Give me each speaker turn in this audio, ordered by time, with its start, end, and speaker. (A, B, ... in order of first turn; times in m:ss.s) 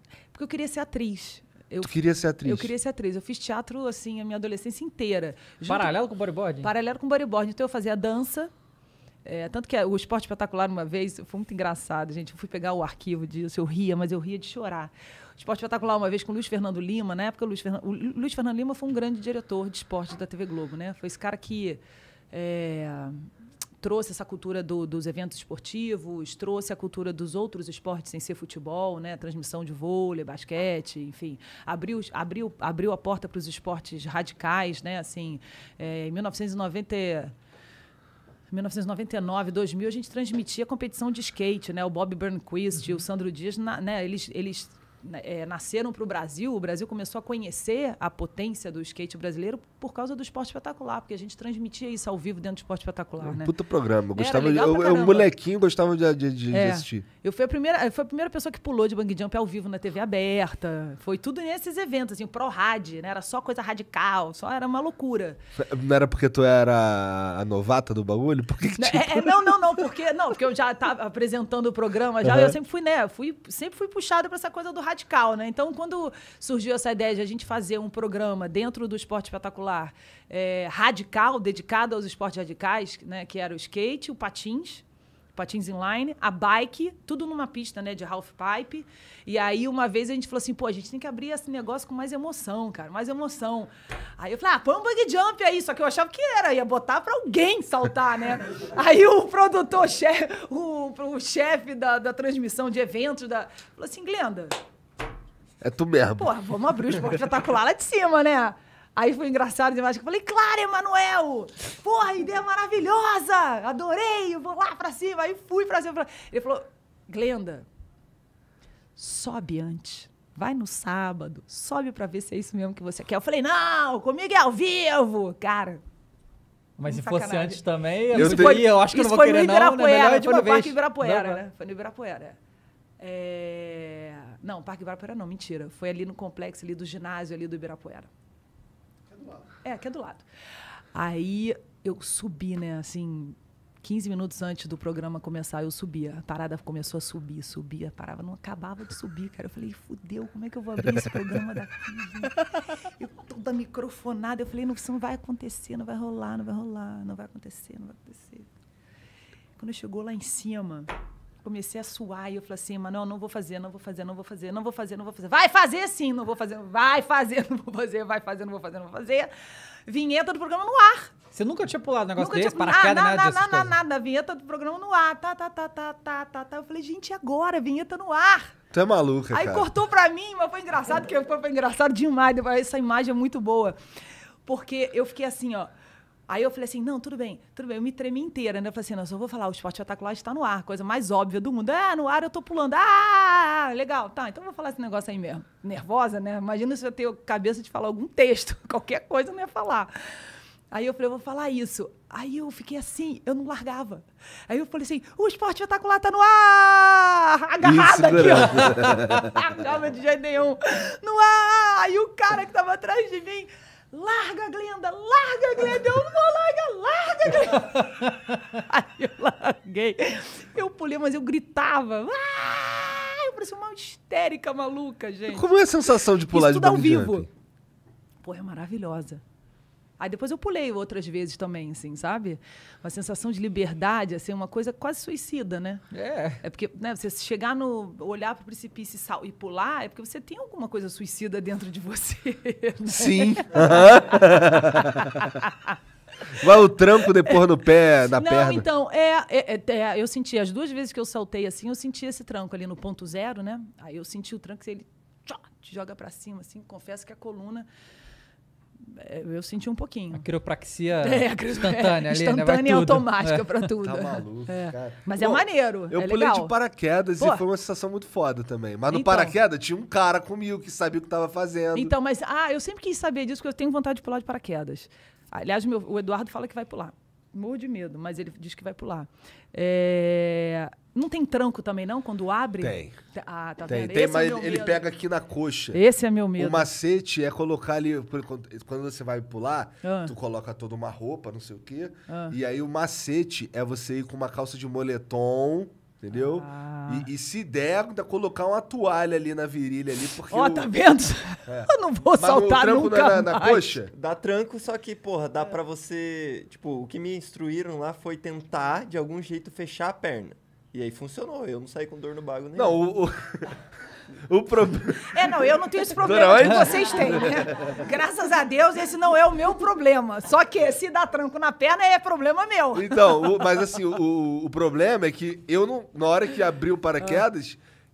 0:00.3-0:06.0 A
0:01.8-0:02.7 B
0:05.7-0:06.7 C
0:06.6-0:08.5 A
0:09.2-0:21.8 A
0:22.3-0:23.3 A
0:23.8-0:37.3 A
0:38.5-0:53.5 A
0:53.2-0:57.0 B
0:54.1-0:55.3 A
0:56.5-1:05.4 A
1:05.6-1:09.8 B
1:08.8-1:24.8 A
1:12.2-1:12.5 B
1:25.4-1:44.6 A
1:45.6-1:46.3 B
1:46.2-1:57.7 A
1:59.0-2:05.8 A
2:06.8-2:11.4 C
2:06.8-2:12.4 A
2:08.1-2:08.5 B
2:13.0-2:18.1 A
2:19.6-2:20.3 A
2:20.9-2:38.5 A
2:39.6-2:40.9 A
2:41.4-2:49.3 A
2:49.9-2:51.2 A
2:51.3-2:53.7 C
2:52.2-2:58.6 A
2:58.7-2:59.7 B
2:59.3-3:03.8 A
3:04.5-3:05.7 A
3:06.3-3:19.9 A
3:20.7-3:45.4 A
3:27.6-3:29.3 B
3:45.3-3:47.3 B
3:46.2-3:47.3 A
3:48.2-3:49.2 A
3:50.0-3:55.8 A
3:55.9-3:56.4 C
3:56.4-4:04.0 A
4:02.9-4:05.4 B
4:05.0-4:05.7 A
4:06.3-4:08.7 B
4:08.1-4:17.7 A
4:18.8-4:20.3 A
4:20.1-4:23.7 C
4:21.0-4:26.6 A
4:23.8-4:31.9 B
4:27.2-4:27.4 A
4:28.9-4:29.4 A
4:31.7-4:44.9 A
4:42.6-4:43.0 B
4:43.7-4:45.8 B
4:45.7-4:46.7 A
4:46.4-5:00.7 B
4:49.8-4:50.1 A
4:52.1-4:52.4 A
4:56.2-4:57.1 A
5:00.3-5:03.7 A
5:01.5-5:03.9 B
5:03.9-5:12.8 D
5:12.6-5:13.6 B
5:14.2-5:17.7 B
5:15.0-5:23.6 A
5:22.7-5:27.6 B